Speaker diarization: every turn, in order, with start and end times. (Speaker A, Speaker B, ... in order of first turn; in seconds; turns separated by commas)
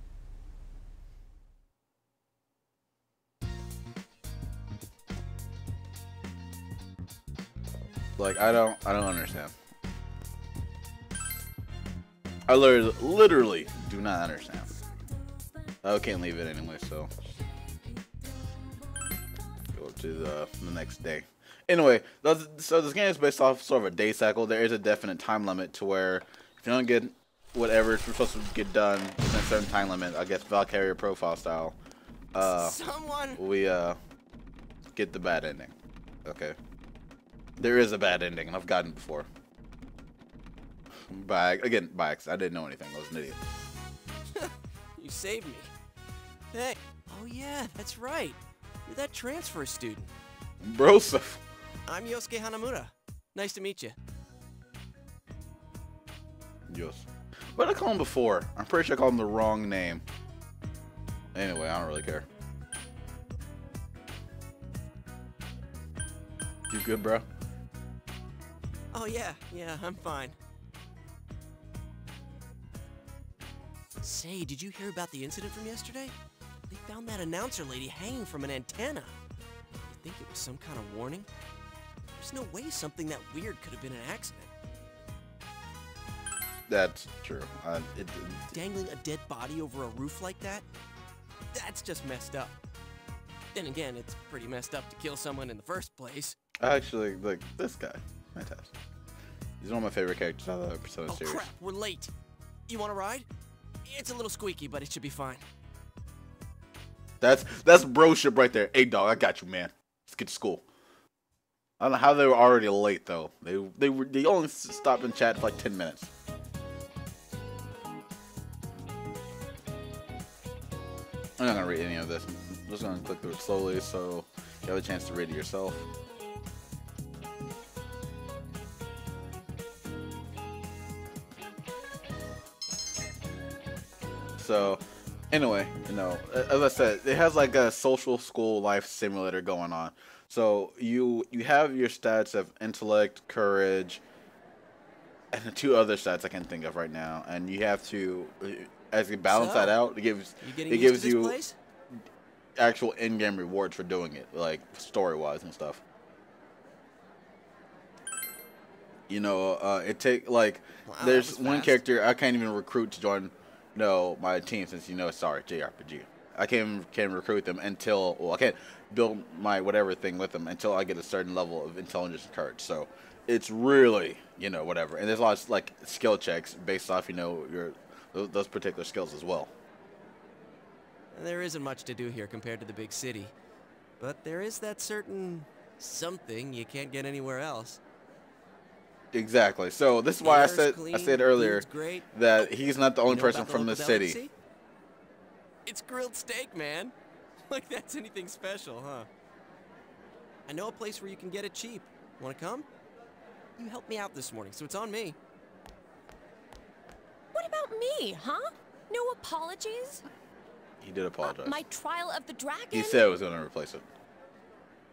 Speaker A: 8.2-9.5, Speaker A: 12.5-14.7, Speaker A: 15.8-17.1, Speaker A: 19.7-31.8, Speaker A: 32.3-32.8, Speaker B: 32.4-33.4, Speaker A: 33.4-34.0, Speaker A: 34.9-35.7, Speaker A: 36.2-36.5, Speaker A: 37.6-39.3, Speaker A: 41.1-43.4, Speaker B: 44.3-45.7, Speaker B: 46.5-50.1, Speaker A: 50.6-51.4, Speaker B: 51.9-54.0, Speaker A: 56.7-60.0, Speaker A: 61.3-62.2, Speaker A: 66.7-67.2, Speaker B: 68.9-70.4, Speaker B: 74.0-76.1, Speaker B: 76.7-79.2, Speaker B: 79.9-81.3, Speaker B: 82.2-84.5, Speaker A: 86.7-88.5, Speaker B: 88.5-90.7, Speaker B: 91.5-92.6, Speaker B: 93.5-96.3, Speaker A: 96.6-98.7, Speaker A: 99.6-101.4, Speaker B: 101.1-102.1, Speaker B: 102.7-103.2, Speaker B: 103.8-105.4, Speaker A: 107.2-110.6, Speaker A: 111.8-116.1, Speaker A: 121.4-125.8, Speaker A: 134.4-144.0, Speaker A: 145.3-151.4, Speaker B: 149.3-149.8, Speaker B: 150.4-151.5, Speaker A: 152.6-155.8, Speaker A: 159.1-179.5, Speaker B: 160.8-161.8, Speaker B: 181.1-183.3, Speaker B: 184.0-187.8, Speaker A: 189.1-194.2, Speaker B: 190.2-192.5, Speaker B: 193.0-194.3, Speaker B: 195.7-196.9, Speaker B: 197.5-199.1, Speaker B: 200.5-202.7, Speaker B: 203.6-205.2, Speaker C: 207.3-210.0, Speaker A: 210.8-211.6, Speaker C: 211.2-213.0, Speaker A: 212.7-213.9